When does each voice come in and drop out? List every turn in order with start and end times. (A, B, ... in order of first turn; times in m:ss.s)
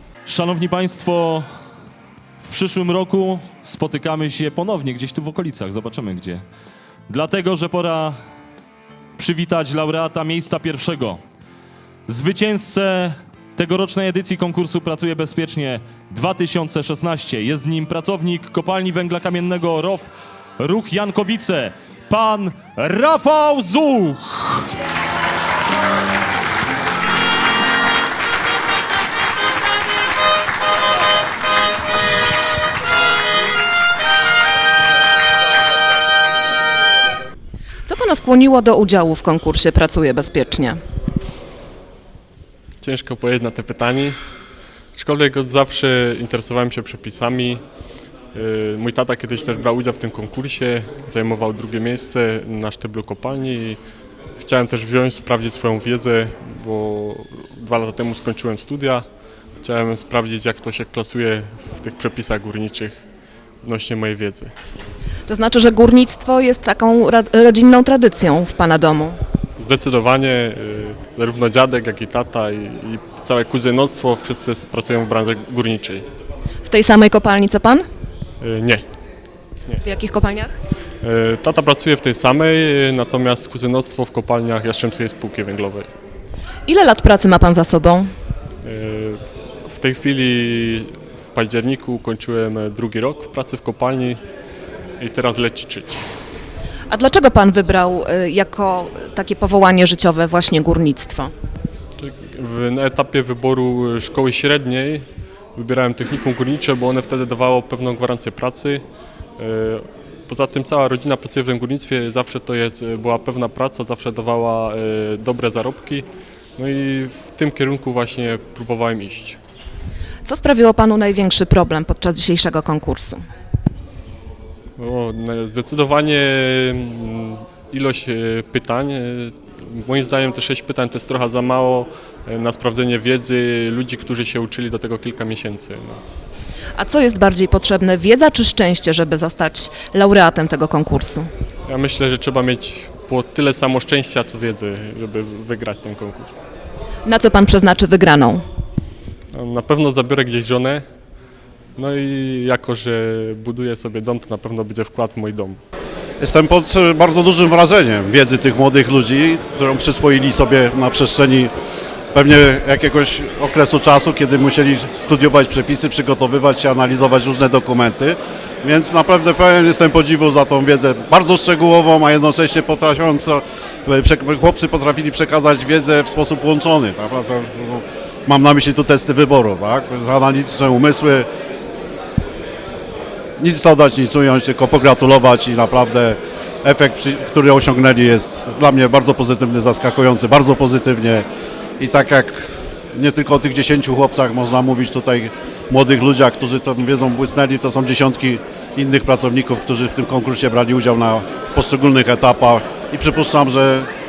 0:00.3-0:01.4 A
0:02.4-0:06.4 A
0:07.1-0:08.2 A
0:09.2-0:11.2 A
0:12.1-0:24.7 A
0:37.9-0:40.8 B
0:42.8-0:44.2 C
0:45.0-0:47.6 C
0:48.3-0:53.8 C
0:54.4-0:59.1 C
0:59.6-1:03.0 C
1:03.6-1:04.5 C
1:05.3-1:09.2 B
1:09.6-1:16.0 C
1:16.7-1:17.8 B
1:18.4-1:18.8 C
1:19.8-1:20.5 B
1:21.0-1:25.9 C
1:26.7-1:28.1 B
1:28.6-1:34.2 C
1:35.0-1:36.0 C
1:36.9-1:41.3 B
1:42.0-1:48.8 C
1:49.4-1:56.1 C
1:56.6-1:59.4 C
2:00.2-2:03.2 B
2:04.8-2:16.0 C
2:16.8-2:21.3 B
2:21.7-2:26.4 C
2:27.0-2:28.4 B
2:29.3-2:30.8 C
2:31.8-2:35.6 C
2:36.2-2:41.5 D
2:42.1-3:01.3 D
3:03.4-3:11.2 D
3:11.8-3:23.9 D